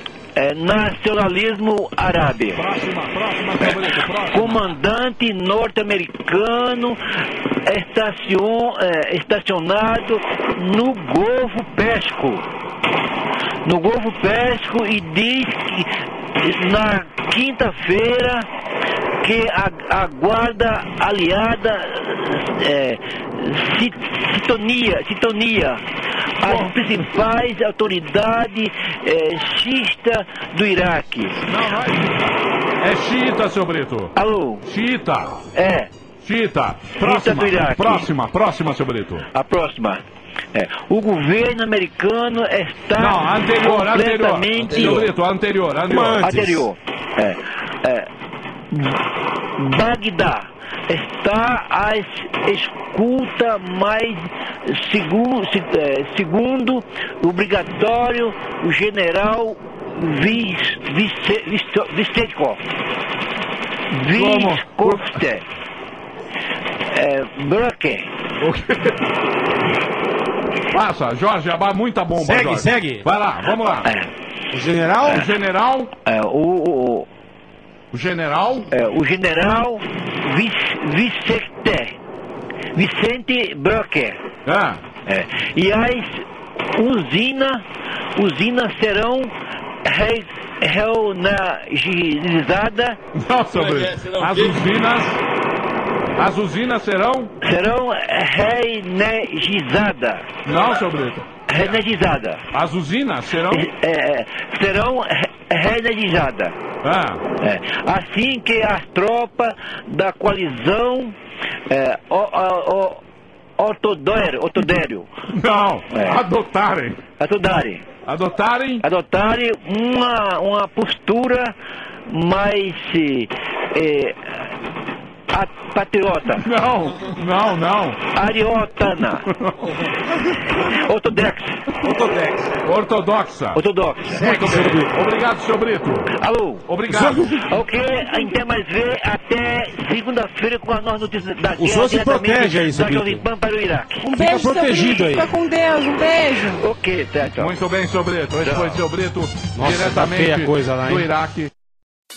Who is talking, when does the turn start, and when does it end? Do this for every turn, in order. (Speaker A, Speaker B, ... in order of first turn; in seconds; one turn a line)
Speaker A: 0.3-2.6
Speaker B: 2.5-4.6
Speaker A: 4.3-7.0
Speaker A: 7.7-12.4
Speaker A: 13.6-18.5
Speaker A: 19.2-25.8
Speaker A: 26.4-31.4
Speaker B: 26.4-27.0
Speaker B: 31.4-34.1
Speaker A: 34.1-34.6
Speaker B: 34.6-35.4
Speaker A: 35.5-35.9
Speaker B: 36.2-39.2
Speaker A: 37.0-38.0
Speaker A: 39.3-40.0
Speaker A: 40.5-45.1
Speaker B: 43.0-46.2
Speaker C: 45.9-46.6
Speaker A: 46.2-48.1
Speaker A: 48.7-49.0
Speaker A: 49.6-62.6
Speaker A: 63.9-65.4
Speaker B: 64.1-65.1
Speaker A: 66.9-68.1
Speaker B: 68.4-68.9
Speaker B: 70.7-73.9
Speaker C: 72.2-73.0
Speaker A: 73.8-74.1
Speaker C: 74.5-75.2
Speaker B: 75.1-75.9
Speaker A: 76.0-77.1
Speaker B: 77.9-78.7
Speaker A: 78.7-81.9
Speaker A: 82.7-84.2
Speaker B: 84.5-84.8
Speaker A: 85.0-87.6
Speaker A: 88.2-89.3
Speaker A: 89.8-93.0
Speaker B: 93.1-95.2
Speaker B: 96.2-97.3
Speaker A: 97.4-100.3
Speaker B: 100.4-101.3
Speaker A: 101.5-102.4
Speaker B: 102.5-103.7
Speaker A: 103.5-106.6
Speaker B: 106.8-107.2
Speaker A: 107.4-111.2
Speaker A: 111.7-113.0
Speaker A: 113.6-115.1
Speaker B: 115.3-117.0
Speaker A: 115.9-116.2
Speaker A: 117.2-117.9
Speaker B: 118.0-118.8
Speaker A: 118.8-121.5
Speaker A: 122.1-124.5
Speaker A: 125.3-126.5
Speaker B: 126.4-128.0
Speaker A: 128.1-129.2
Speaker B: 129.3-129.6
Speaker A: 130.6-131.6
Speaker C: 131.8-132.5
Speaker B: 132.6-133.6
Speaker A: 133.5-134.3
Speaker C: 134.0-135.0
Speaker B: 134.2-136.1
Speaker A: 136.2-136.6
Speaker B: 136.7-137.4
Speaker C: 136.9-137.2
Speaker A: 137.2-144.2
Speaker C: 141.6-143.2
Speaker D: 144.0-146.6
Speaker C: 144.2-145.3
Speaker A: 146.4-147.5
Speaker B: 147.4-151.5
Speaker A: 148.3-148.8
Speaker C: 149.5-151.1